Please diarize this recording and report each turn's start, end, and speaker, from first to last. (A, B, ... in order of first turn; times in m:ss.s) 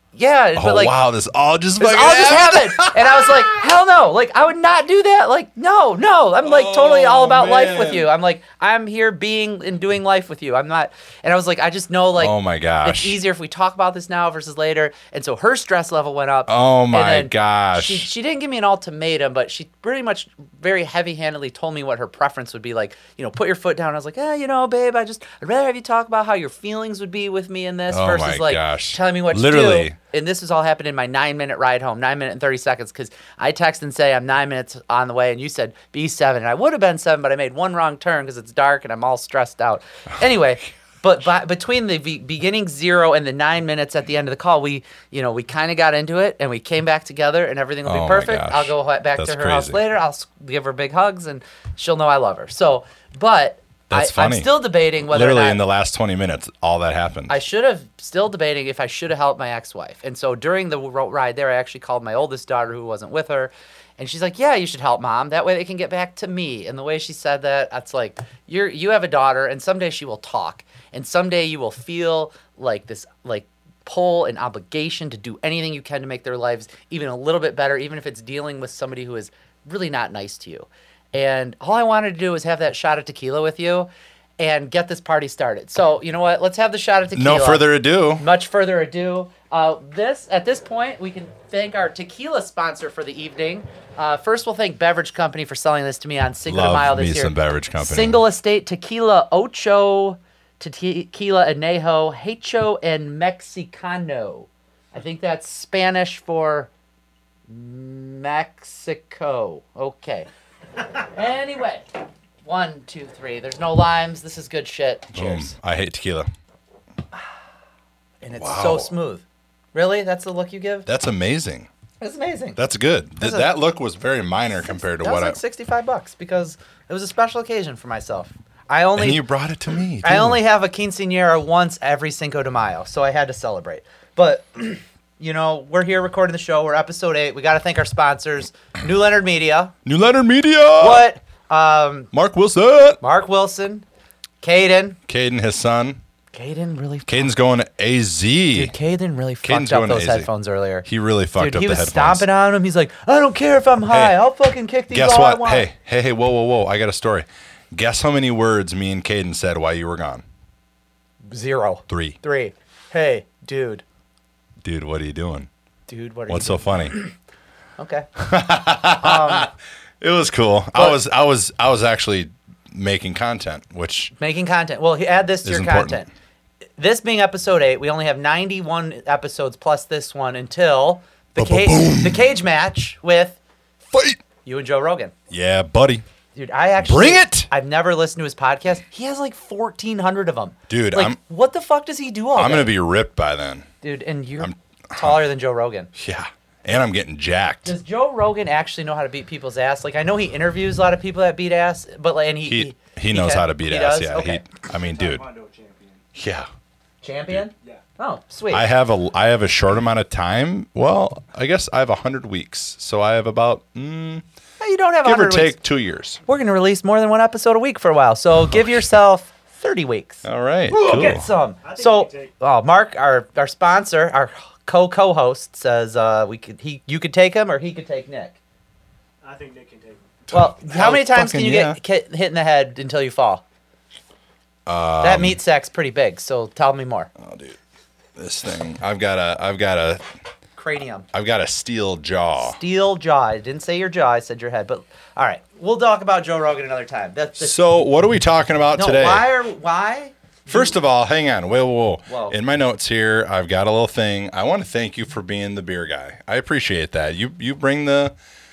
0:00.1-0:00.9 A
0:00.6-0:03.6 B
0:01.8-0:55.6 A
0:06.4-0:08.1 B
0:12.2-0:13.2 B
0:16.5-0:18.1 B
0:27.9-0:30.0 B
0:47.8-0:49.8 B
0:53.9-0:57.4 B
0:57.3-1:27.6 A
1:27.1-1:28.2 B
1:28.2-1:46.7 A
1:36.4-1:38.2 B
1:47.5-1:50.3 A
1:51.0-1:51.8 A
1:52.4-1:55.5 A
1:55.1-1:56.3 B
1:58.2-2:00.9 A
1:58.3-1:58.9 B
2:00.8-2:01.7 B
2:02.0-2:02.6 A
2:02.6-2:05.4 B
2:03.2-2:03.5 A
2:04.6-2:09.2 A
2:09.0-2:10.4 B
2:10.0-2:19.7 A
2:19.8-2:21.0 B
2:20.8-2:22.1 A
2:22.1-2:23.0 B
2:23.0-2:23.8 A
2:24.4-2:25.0 A
2:25.1-2:26.0 B
2:26.3-2:27.3 A
2:27.1-2:28.7 B
2:28.5-2:35.7 A
2:29.4-2:30.3 B
2:30.8-2:32.2 B
2:33.9-2:34.2 B
2:34.9-2:40.2 B
2:41.3-2:43.8 A
2:41.9-2:42.2 B
2:44.6-2:45.5 B
2:45.9-2:47.1 A
2:46.3-2:47.0 B
2:47.8-2:48.1 A
2:48.2-2:49.5 B
2:49.0-2:49.5 A
2:50.0-2:54.1 B
2:54.2-2:56.1 A
2:55.4-2:56.0 B
2:56.8-3:03.4 A
3:01.4-3:02.3 B
3:03.9-3:04.2 B
3:04.4-3:05.1 A
3:05.3-3:06.0 B
3:06.3-3:12.7 A
3:06.8-3:07.5 B
3:10.7-3:11.2 B
3:12.4-3:13.7 B
3:13.8-3:15.9 A
3:14.4-3:15.2 B
3:15.9-3:17.7 B
3:17.6-3:24.5 A
3:22.4-3:25.2 B
3:24.7-3:26.0 C
3:26.1-3:26.5 B
3:27.0-3:28.6 A
3:28.5-3:34.2 B
3:34.6-3:35.6 A
3:35.0-3:36.2 B
3:36.2-3:48.4 A
3:38.5-3:38.8 B
3:40.2-3:41.2 B
3:40.7-3:42.3 C
3:49.2-3:50.2 C
3:50.3-3:51.8 B
3:50.3-3:53.4 A
3:54.6-3:55.4 B
3:55.0-3:57.1 A
3:57.2-3:57.6 B
3:58.2-4:00.0 B
4:00.6-4:01.1 A
4:01.1-4:02.6 B
4:02.4-4:07.5 A
4:07.4-4:09.3 B
4:08.8-4:10.7 A
4:10.5-4:18.1 B
4:12.1-4:12.4 A